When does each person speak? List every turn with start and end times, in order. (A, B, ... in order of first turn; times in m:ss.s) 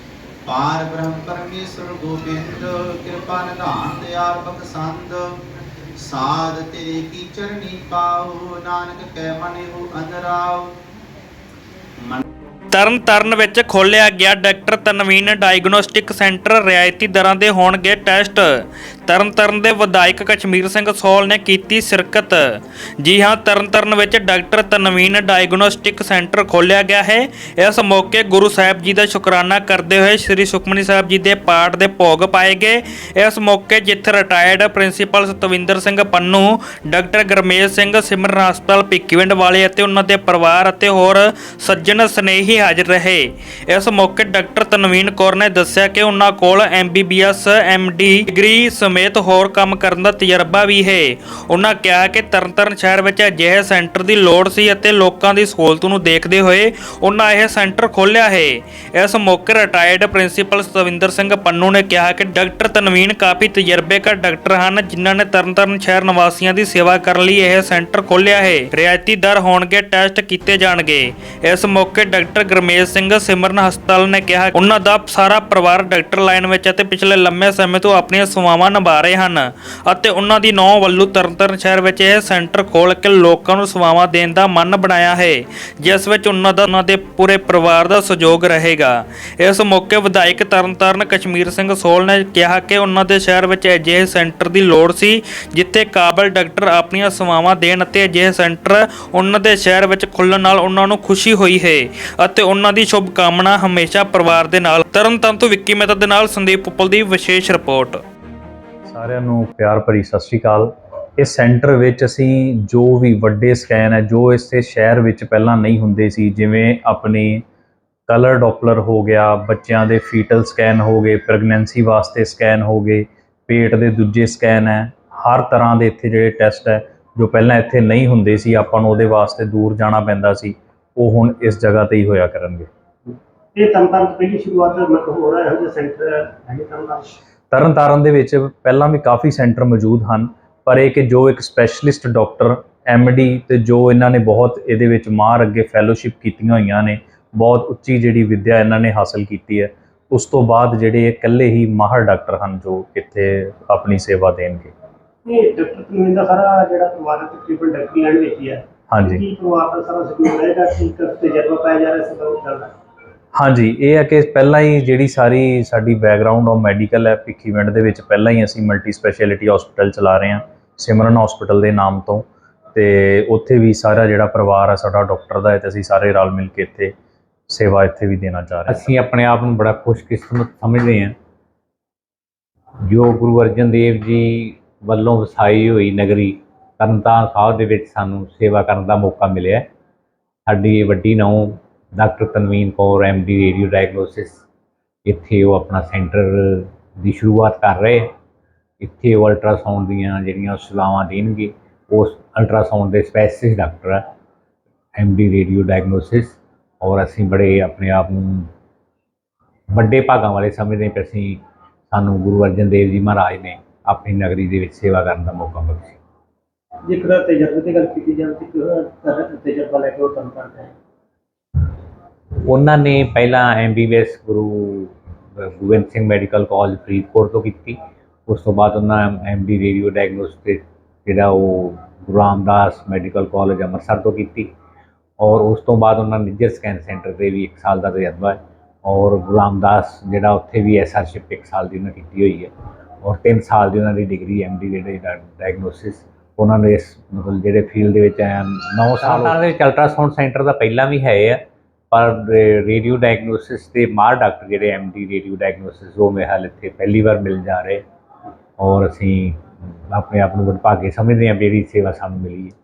0:00.5-0:05.4 A
0:06.0-0:10.7 A
0:12.7-0:18.6 B
0:19.1-0:22.4 B
0:23.0-1:48.0 B
1:48.9-1:57.4 C
1:58.1-2:12.7 C
2:13.6-2:17.1 D
2:17.5-2:34.7 C
2:35.2-2:42.7 D
2:38.9-2:39.2 C
2:43.4-2:56.9 C
2:57.5-2:58.9 C
2:58.7-3:01.1 E
3:02.9-3:09.6 E
3:10.5-3:11.4 E
3:12.0-3:14.3 E
3:15.1-3:16.4 E
3:17.0-3:18.0 E
3:18.8-3:24.0 E
3:25.0-3:28.4 E
3:29.8-3:31.4 E
3:31.9-3:35.9 E
3:36.9-3:40.7 D
3:42.5-3:44.8 E
3:45.6-3:47.8 E
3:48.3-3:54.5 E
3:55.2-3:58.4 E
3:58.9-4:02.5 E
4:03.0-4:11.4 E
4:11.9-4:17.8 E
4:18.6-4:19.3 E
4:19.9-4:22.5 E